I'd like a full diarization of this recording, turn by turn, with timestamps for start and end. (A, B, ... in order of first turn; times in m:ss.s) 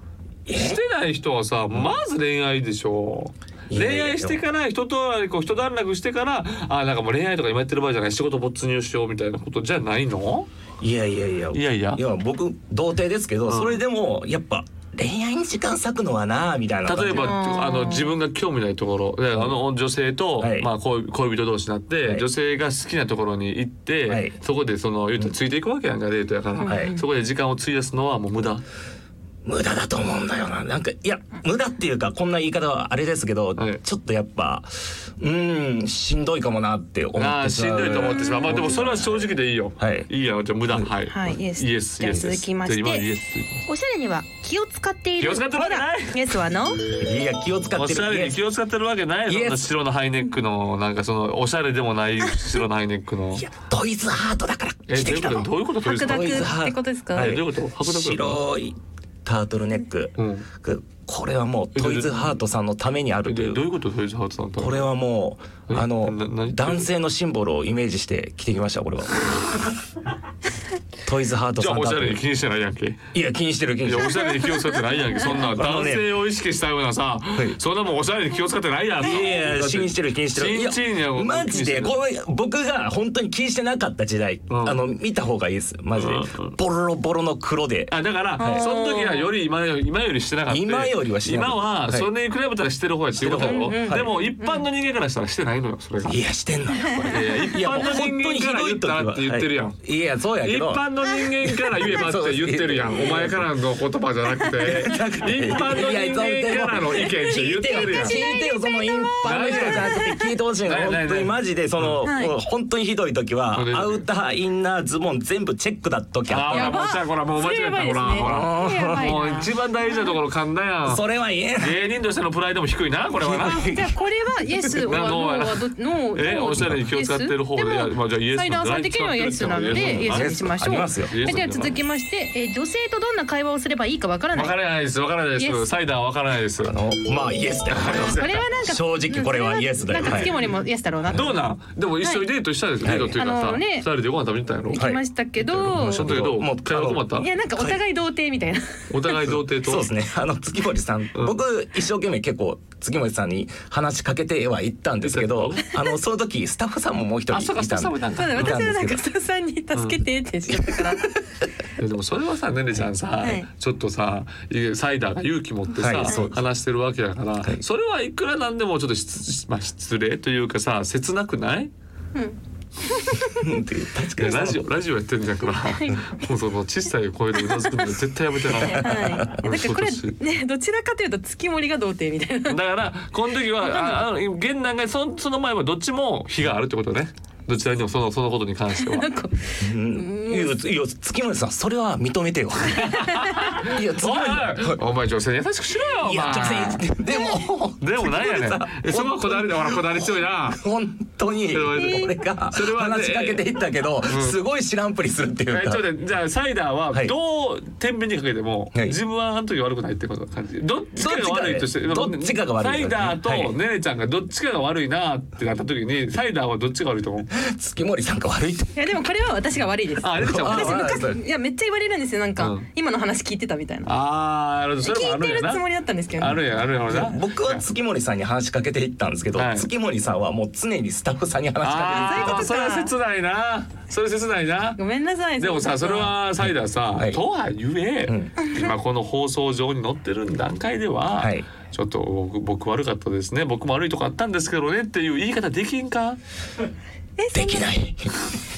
0:00.5-0:00.8 A
0:00.5-0:10.5 B
0:03.7-0:04.4 A
0:10.8-0:17.3 A
0:11.5-0:12.0 B
0:13.5-0:13.8 B
0:16.9-0:28.6 B
0:17.1-0:18.1 C
0:20.4-0:20.7 A
0:24.1-0:24.3 A
0:26.6-0:27.0 C
0:26.6-0:26.9 A
0:29.4-0:40.1 A
0:37.2-0:43.6 B
0:37.9-0:38.8 C
0:41.1-0:43.1 C
0:43.7-0:46.8 C
0:45.2-0:46.2 B
0:47.0-0:48.4 A
0:47.8-0:53.4 B
0:49.3-0:49.7 A
0:53.3-1:03.6 A
0:54.9-0:56.6 B
0:55.8-0:57.4 C
0:57.1-0:58.4 B
1:00.2-1:00.5 B
1:01.7-1:02.3 B
1:03.2-1:04.9 B
1:04.6-1:09.7 A
1:05.7-1:06.9 B
1:11.0-1:12.2 A
1:11.6-1:13.0 B
1:13.1-1:14.4 A
1:13.8-1:22.0 B
1:15.3-1:16.1 A
1:19.0-1:28.7 A
1:24.5-1:24.8 B
1:26.0-1:26.5 B
1:27.9-1:36.2 B
1:28.4-1:29.3 C
1:30.5-1:32.1 A
1:33.2-1:34.1 A
1:33.4-1:34.6 C
1:36.0-1:40.9 A
1:36.8-1:37.7 C
1:37.1-1:39.8 B
1:40.4-1:48.2 B
1:41.4-1:43.5 A
1:44.5-1:56.8 A
1:47.7-1:50.3 C
1:49.2-1:50.0 B
1:50.6-1:52.0 B
1:52.0-1:52.4 C
1:53.5-1:54.0 B
1:56.3-2:01.0 B
1:56.5-1:59.5 C
1:58.2-1:59.2 A
2:00.8-2:01.8 A
2:01.6-2:03.6 B
2:03.2-2:04.0 A
2:03.4-2:14.5 C
2:04.6-2:05.2 A
2:04.8-2:11.8 B
2:06.5-2:06.8 A
2:09.7-2:11.1 A
2:14.3-2:16.8 B
2:15.4-2:15.7 C
2:16.6-2:20.4 A
2:17.7-2:18.4 B
2:17.9-2:21.3 C
2:21.1-2:24.9 B
2:22.8-2:23.2 A
2:23.1-2:23.9 C
2:24.7-2:26.0 C
2:24.7-2:25.0 A
2:25.4-2:27.3 B
2:25.6-2:27.8 A
2:27.1-2:29.1 C
2:28.9-2:29.9 B
2:29.2-2:39.0 A
2:35.0-2:35.7 B
2:37.3-2:38.6 B
2:38.2-2:41.2 C
2:39.7-2:40.0 B
2:40.5-2:41.1 A
2:41.8-2:51.7 B
2:43.2-2:43.5 C
2:45.8-2:46.4 A
2:46.0-2:46.3 C
2:52.1-2:53.6 C
2:53.4-2:54.7 A
2:54.2-3:00.2 B
2:55.6-2:56.1 C
2:57.4-2:57.7 C
2:58.6-3:02.6 C
2:58.7-2:59.3 A
3:02.5-3:09.1 B
3:03.6-3:04.0 C
3:08.7-3:10.6 C
3:09.6-3:14.8 A
3:12.8-3:16.8 B
3:12.8-3:13.1 C
3:16.0-3:25.8 A
3:17.8-3:20.6 B
3:21.5-3:23.4 B
3:21.7-3:22.2 C
3:24.1-3:24.4 B
3:25.5-3:37.3 B
3:31.0-3:33.5 A
3:37.3-3:38.9 A
3:38.8-3:43.9 C
3:40.0-3:40.9 B
3:40.2-3:41.2 A
3:42.4-3:42.6 B
3:43.8-3:45.6 B
3:44.8-3:46.4 C
3:46.2-3:47.6 B
3:46.9-3:52.5 A
3:49.3-3:49.7 B
3:51.6-3:54.8 B
3:51.8-3:52.9 C
3:54.8-3:56.1 C
3:55.4-4:06.2 B
3:56.4-3:57.2 A
3:58.0-3:58.3 A
3:58.4-3:58.7 C
4:01.2-4:01.5 A
4:07.2-4:07.7 C
4:07.3-4:08.3 A